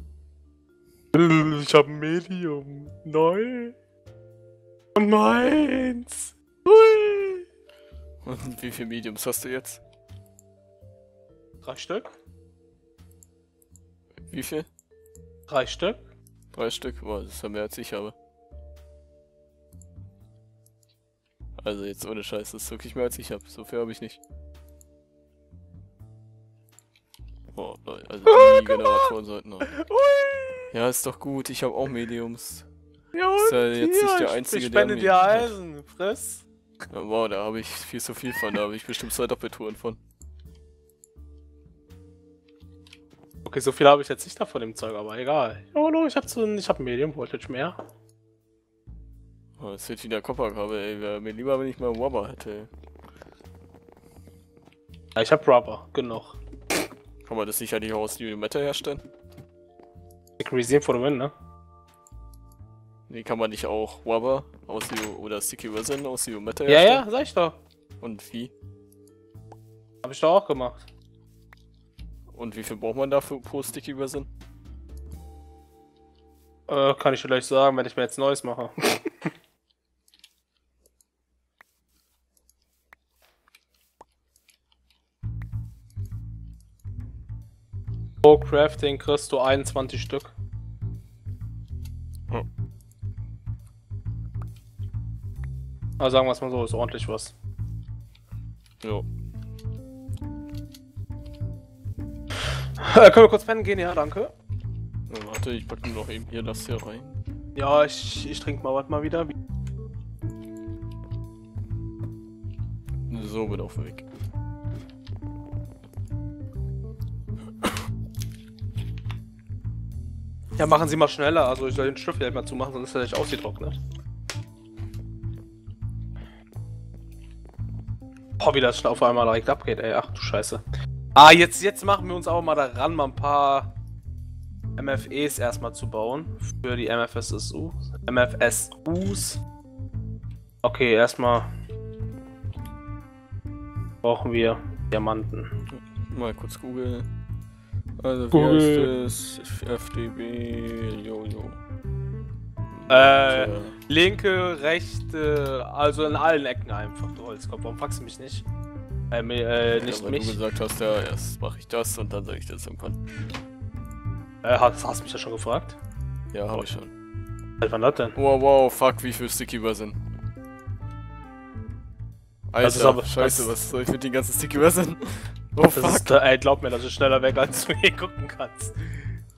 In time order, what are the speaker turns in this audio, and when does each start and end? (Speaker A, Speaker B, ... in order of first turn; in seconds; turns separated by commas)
Speaker A: 1.1-3.8, Speaker A: 5.0-7.4, Speaker B: 8.2-9.8, Speaker A: 11.6-12.2, Speaker B: 14.3-14.7, Speaker A: 15.5-16.0, Speaker B: 16.5-18.1, Speaker B: 21.6-24.2, Speaker B: 27.5-29.7, Speaker A: 28.2-29.1, Speaker A: 29.6-30.7, Speaker B: 30.7-32.6, Speaker A: 33.1-36.4, Speaker B: 33.3-35.5, Speaker B: 36.9-40.0, Speaker A: 43.4-47.8, Speaker B: 49.6-52.7, Speaker A: 55.1-56.4, Speaker B: 57.2-59.0, Speaker A: 60.4-61.3, Speaker B: 63.1-67.0, Speaker A: 66.7-67.6, Speaker B: 68.0-68.5, Speaker A: 70.0-70.8, Speaker B: 72.3-74.3, Speaker A: 76.7-79.3, Speaker A: 88.2-90.3, Speaker A: 96.0-97.3, Speaker B: 98.8-99.0, Speaker A: 102.6-104.3, Speaker B: 105.1-107.2, Speaker A: 107.5-109.3, Speaker B: 113.1-114.0, Speaker A: 120.6-123.8, Speaker A: 128.4-130.6, Speaker A: 131.1-133.7, Speaker A: 134.8-139.4, Speaker A: 140.6-141.5, Speaker A: 144.0-145.5, Speaker B: 145.7-147.1, Speaker B: 148.0-151.6, Speaker A: 148.3-148.9, Speaker B: 152.7-153.8, Speaker A: 152.9-158.4, Speaker A: 159.1-160.4, Speaker B: 159.8-163.0, Speaker A: 164.4-165.8, Speaker B: 166.3-166.9, Speaker A: 167.6-168.2, Speaker B: 168.1-170.0, Speaker B: 172.5-176.2, Speaker A: 172.6-173.5, Speaker A: 175.7-179.1